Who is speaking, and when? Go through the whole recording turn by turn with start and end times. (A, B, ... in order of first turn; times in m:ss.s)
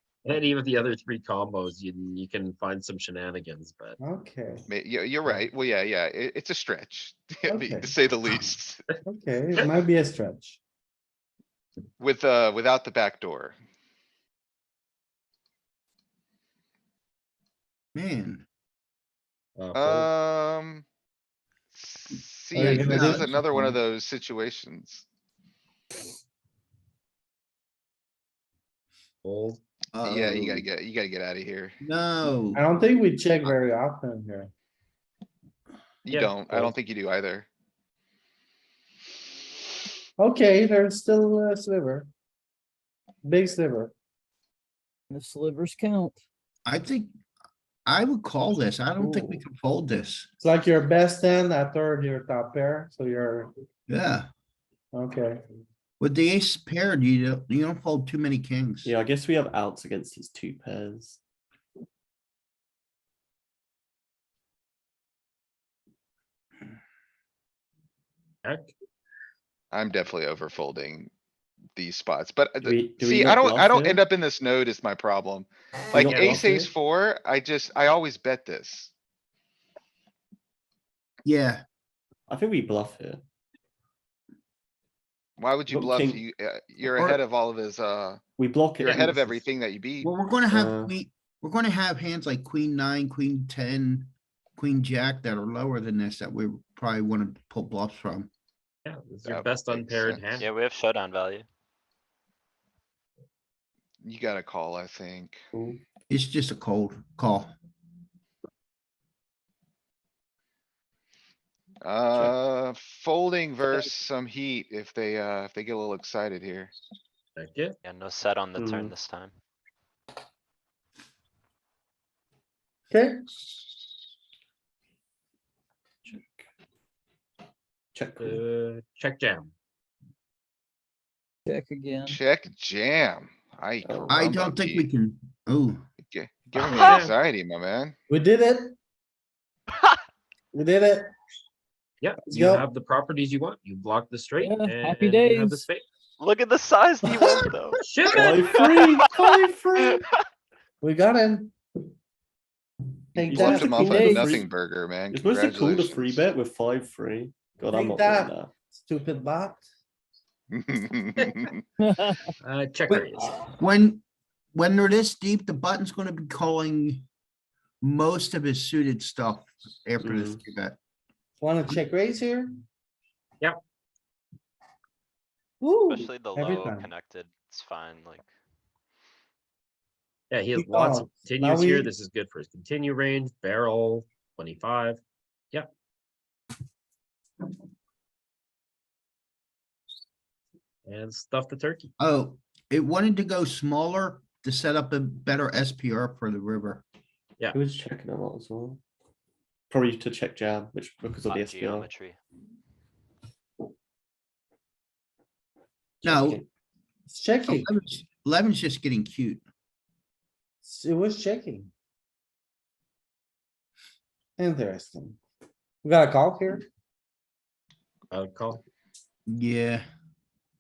0:00.2-0:04.0 A
0:04.0-0:04.7 B
0:04.7-0:08.8 C
0:07.5-0:07.9 B
0:09.0-0:10.6 B
0:12.0-0:13.6 C
0:18.0-0:18.4 D
0:19.6-0:20.1 A
0:19.8-0:20.8 C
0:21.7-0:25.1 C
0:22.5-0:23.4 B
0:22.6-0:23.4 D
0:29.2-0:29.6 A
0:29.9-0:30.6 D
0:30.0-0:31.8 C
0:31.8-0:32.7 D
0:32.6-0:34.5 B
0:36.0-0:37.5 C
0:36.1-0:36.7 A
0:40.2-0:42.1 B
0:43.2-0:43.9 B
0:45.1-0:46.2 E
0:46.7-0:47.1 D
0:47.9-0:50.3 D
0:49.0-0:49.4 F
0:50.4-0:53.5 B
0:53.9-0:54.3 D
0:54.9-0:55.4 B
0:56.0-0:58.9 D
0:58.8-1:01.2 F
1:08.4-1:08.7 A
1:09.7-1:11.1 C
1:11.8-1:18.9 C
1:12.6-1:14.0 F
1:15.9-1:16.7 F
1:16.0-1:16.4 A
1:21.2-1:21.6 D
1:22.3-1:23.2 F
1:25.4-1:28.2 C
1:25.7-1:26.2 F
1:28.4-1:29.5 F
1:28.8-1:29.1 A
1:28.9-1:30.1 C
1:30.0-1:38.3 D
1:30.5-1:30.9 F
1:38.8-1:40.5 A
1:39.3-1:40.3 C
1:40.4-1:41.5 G
1:44.0-1:45.4 C
1:45.5-1:45.8 F
1:46.1-1:47.5 D
1:51.8-1:56.7 C
1:57.4-1:57.8 A
1:57.8-1:59.3 G
1:58.6-1:58.9 F
2:02.9-2:03.2 B
2:06.0-2:06.4 F
2:07.9-2:08.4 F
2:08.2-2:09.5 A
2:11.5-2:12.2 E
2:12.1-2:14.9 C
2:13.8-2:14.3 F
2:14.1-2:15.9 D
2:16.0-2:18.0 C
2:16.6-2:17.0 G
2:16.7-2:17.2 A
2:18.1-2:18.8 B
2:20.5-2:21.1 B
2:22.0-2:25.8 A
2:22.3-2:22.7 B
2:24.4-2:25.6 E
2:26.2-2:29.1 G
2:27.0-2:27.6 B
2:27.7-2:28.4 A
2:28.2-2:29.7 F
2:30.8-2:31.5 B
2:33.1-2:34.0 B
2:33.2-2:34.5 F
2:33.4-2:36.2 C
2:33.8-2:34.4 E
2:35.1-2:38.5 F
2:37.7-2:39.6 B
2:40.5-2:41.5 C
2:41.2-2:41.5 A
2:41.8-2:42.3 E
2:42.4-2:43.4 A
2:43.6-2:44.0 D
2:44.5-2:47.0 D
2:47.8-2:50.8 D
2:50.0-2:50.4 F
2:51.4-2:52.6 B
2:55.6-2:56.9 B
2:55.9-2:58.3 G
3:00.3-3:05.0 A
3:00.6-3:01.9 B
3:10.9-3:11.9 A
3:12.0-3:16.8 D
3:17.5-3:18.8 F
3:19.7-3:21.9 F
3:21.2-3:22.2 G
3:26.0-3:26.5 F
3:26.0-3:26.4 D
3:27.1-3:27.7 B
3:27.5-3:29.4 D
3:30.6-3:31.7 B
3:34.4-3:35.2 B
3:35.8-3:36.6 B
3:38.1-3:38.6 A
3:39.3-3:39.9 D